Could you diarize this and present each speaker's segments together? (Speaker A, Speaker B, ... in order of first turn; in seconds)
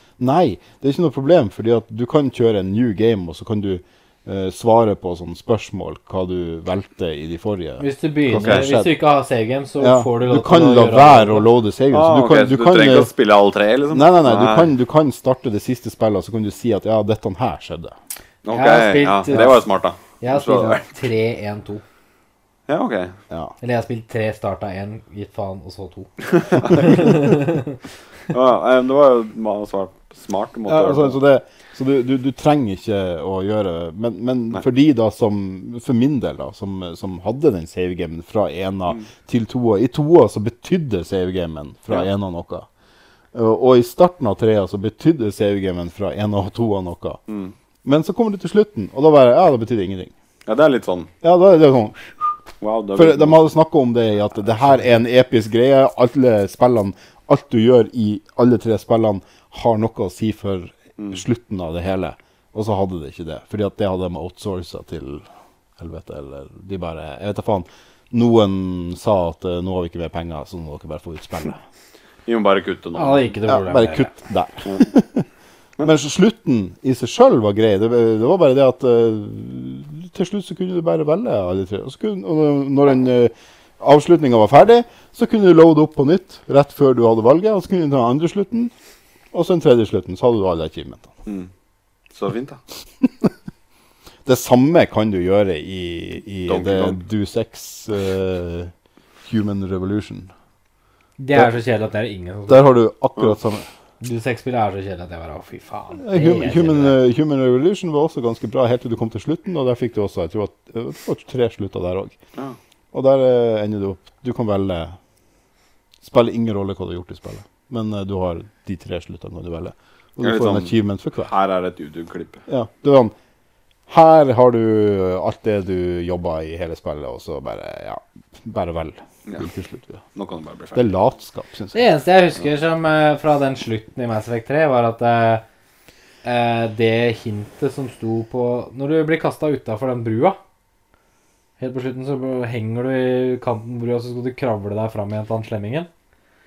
Speaker A: 0.2-8.9, 9.8-13.1, 13.9-17.9, 30.7-42.7, 43.3-47.2, 47.8-50.1, 51.2-52.3, 52.9-65.2, 65.8-71.6, 73.5-75.3, 75.8-88.7, 89.3-91.1, 93.0-93.3, 94.2-100.3, 102.5-103.7, 106.0-112.2, 112.9-115.0, 116.0-121.3, 122.5-123.1, 123.9-130.0, 130.7-131.8
Speaker B: 7.8-11.5, 18.5-21.8, 23.6-27.8, 72.9-74.1, 101.2-102.7, 104.0-107.0, 131.7-135.4, 136.2-140.4, 141.6-145.9
Speaker C: 8.3-8.7, 11.9-14.7, 18.4-20.8, 22.7-23.1, 26.4-27.4, 28.3-31.2, 47.3-47.5, 50.5-51.1, 52.6-53.4, 72.2-73.3, 92.1-92.6, 96.5-97.0, 120.2-122.4, 130.1-130.8